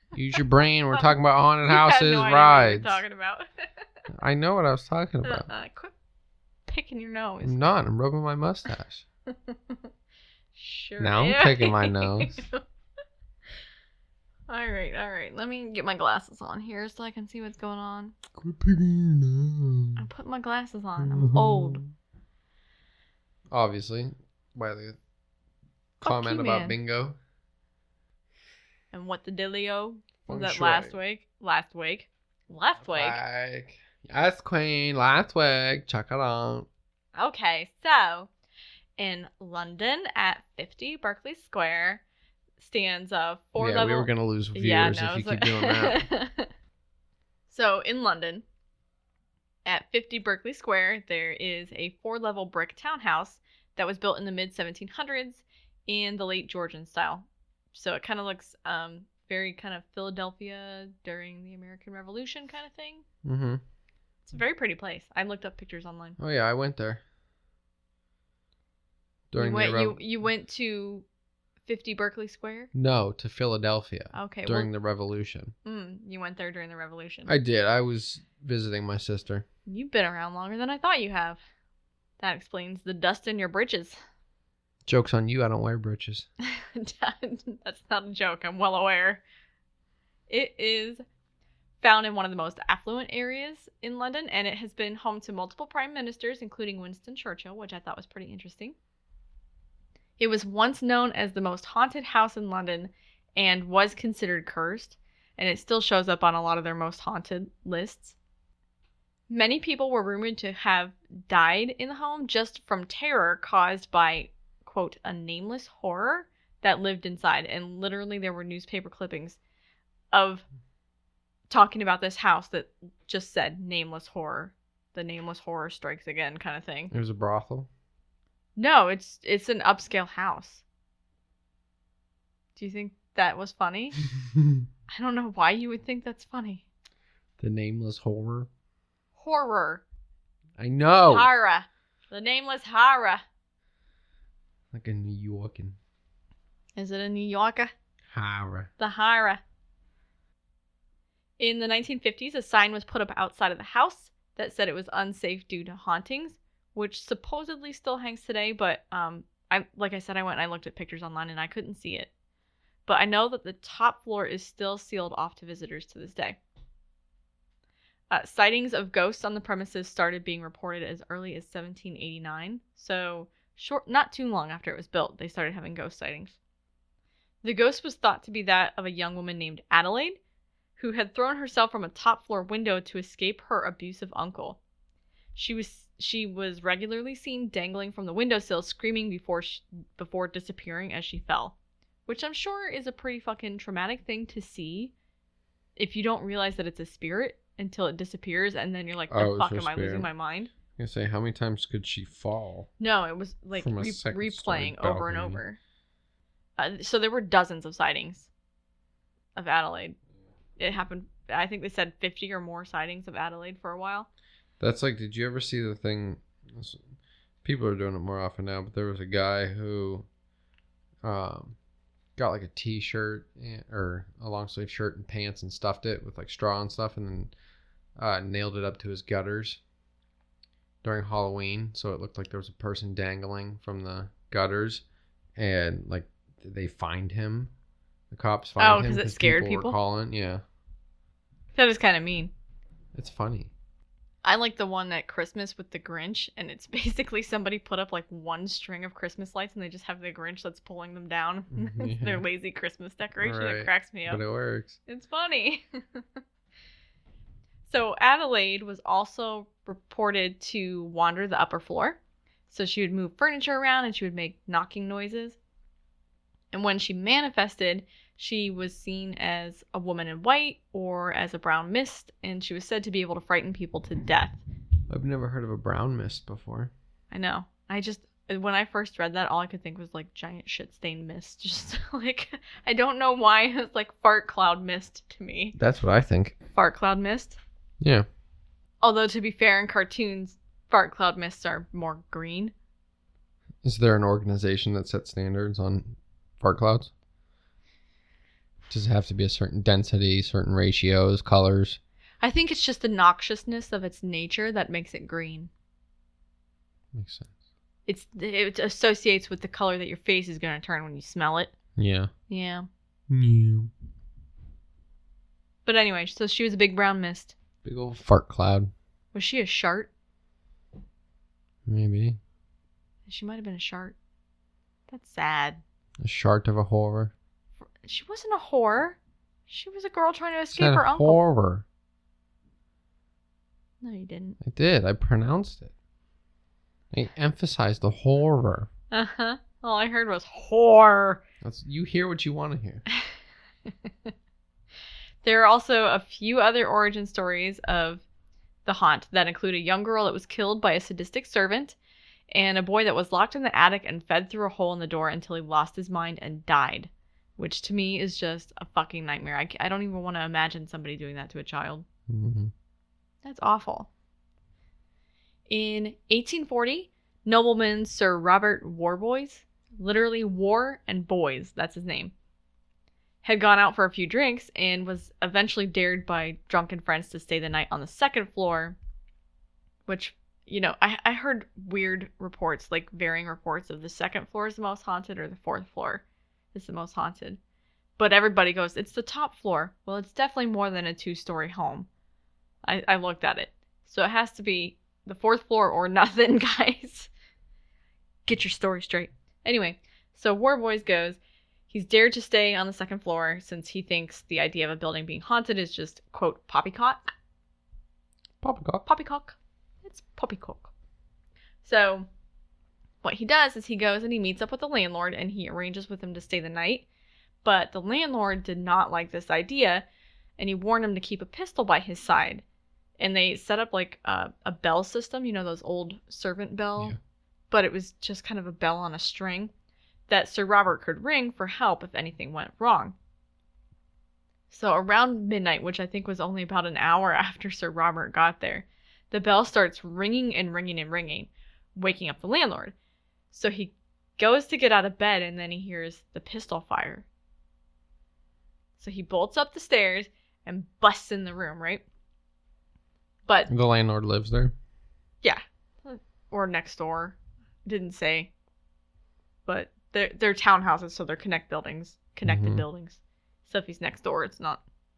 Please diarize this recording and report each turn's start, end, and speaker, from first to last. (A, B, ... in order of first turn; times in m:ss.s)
0:00.1-0:03.0 A
0:00.9-0:03.4 B
0:04.1-0:05.5 A
0:05.2-0:05.9 B
0:06.7-0:07.6 B
0:07.4-0:09.0 A
0:09.3-0:09.8 B
0:10.5-0:12.6 B
0:11.0-0:12.4 A
0:14.5-0:18.2 B
0:18.4-0:20.1 A
0:20.0-0:21.8 B
0:21.0-0:21.9 A
0:23.5-0:25.0 A
0:26.0-0:27.2 A
0:26.0-0:26.8 B
0:28.9-0:33.2 B
0:30.3-0:31.0 A
0:32.8-0:36.7 A
0:37.2-0:38.3 B
0:39.0-0:42.0 B
0:42.6-0:46.5 B
0:43.6-0:46.1 A
0:47.5-0:48.4 B
0:49.7-1:03.0 B
1:03.2-1:03.6 A
1:04.3-1:06.2 B
1:06.2-1:07.0 A
1:09.3-1:10.0 A
1:09.4-1:11.0 B
1:11.7-1:12.7 B
1:12.7-1:15.5 A
1:14.1-1:14.7 B
1:15.6-1:17.3 B
1:17.3-1:19.4 A
1:19.7-1:21.4 B
1:22.2-1:24.0 B
1:24.9-1:26.3 A
1:26.4-1:29.2 B
1:30.3-1:31.0 B
1:31.8-1:38.8 B
1:40.2-1:48.2 B
1:49.3-1:59.4 B
2:00.1-2:00.4 B
2:01.5-2:06.9 B
2:06.9-2:07.7 A
2:08.6-2:10.6 B
2:12.6-2:14.0 B
2:14.4-2:14.6 A
2:14.9-2:16.6 B
2:17.4-2:18.5 A
2:19.2-2:19.8 B
2:20.6-2:21.3 A
2:21.1-2:23.2 B
2:24.7-2:25.8 A
2:26.8-2:27.7 B
2:28.1-2:28.7 A
2:28.8-2:29.4 B
2:31.4-2:42.1 B
2:42.9-2:46.4 B
2:48.1-2:56.4 B
2:57.4-3:00.2 B
3:00.8-3:04.6 B
3:05.4-3:11.6 B
3:12.1-3:14.9 B
3:15.8-3:20.5 B
3:19.1-3:20.1 A
3:20.8-3:22.7 A
3:22.8-3:25.6 B
3:23.6-3:25.4 A
3:26.6-3:28.3 B
3:29.4-3:30.0 B
3:30.6-3:34.1 B
3:34.6-3:36.8 A
3:37.4-3:40.1 A
3:41.0-3:41.6 A
3:42.2-3:47.3 A
3:48.0-3:49.6 A
3:50.8-3:54.8 A
3:55.4-3:57.5 A
3:58.1-4:00.4 A
3:58.6-3:59.8 B
4:01.6-4:02.3 B
4:02.9-4:03.5 A
4:04.2-4:14.2 B
4:11.5-4:12.2 A
4:13.2-4:14.8 A
4:14.9-4:16.0 B
4:17.7-4:25.4 B
4:26.5-4:34.4 B
4:34.9-4:36.7 A
4:37.1-4:45.6 B
4:45.6-4:46.4 A
4:46.5-4:47.4 B
4:47.8-4:48.1 A
4:48.8-4:52.5 B
4:53.6-4:56.9 A
4:58.7-5:01.8 A
5:02.2-5:05.5 B
5:06.9-5:07.3 A
5:07.9-5:11.5 B
5:11.8-5:12.1 A
5:12.3-5:12.7 B
5:13.1-5:13.7 A
5:15.6-5:17.3 B
5:17.6-5:18.7 A
5:19.1-5:19.9 B
5:21.7-5:22.2 A
5:23.1-5:24.0 B
5:24.9-5:25.6 B
5:26.0-5:27.1 A
5:27.8-5:29.0 B
5:29.5-5:31.2 B
5:30.5-5:31.6 A
5:33.8-5:34.4 B
5:34.4-5:35.7 A
5:36.9-5:38.7 A
5:38.9-5:41.2 B
5:41.4-5:42.8 A
5:43.7-5:44.1 B
5:45.2-5:48.0 B
5:48.6-5:51.8 B
5:52.3-6:01.8 B
6:02.1-6:02.5 A
6:03.2-6:03.9 B
6:05.5-6:12.1 B
6:13.2-6:18.8 B
6:19.9-6:27.4 B
6:28.0-6:31.9 B
6:32.7-6:37.1 B
6:38.3-6:41.2 B
6:41.7-6:47.0 B
6:48.4-6:48.8 A
6:48.9-6:50.7 B
6:51.6-6:52.1 B
6:53.0-6:56.9 B
6:57.4-6:59.8 B
7:00.4-7:02.4 B
7:03.0-7:07.0 B
7:07.5-7:09.5 B
7:10.1-7:13.0 B
7:14.5-7:22.8 B
7:23.3-7:27.1 B
7:28.8-7:31.8 B
7:33.5-7:34.5 A
7:35.2-7:38.3 B
7:39.5-7:44.6 B
7:42.2-7:42.6 A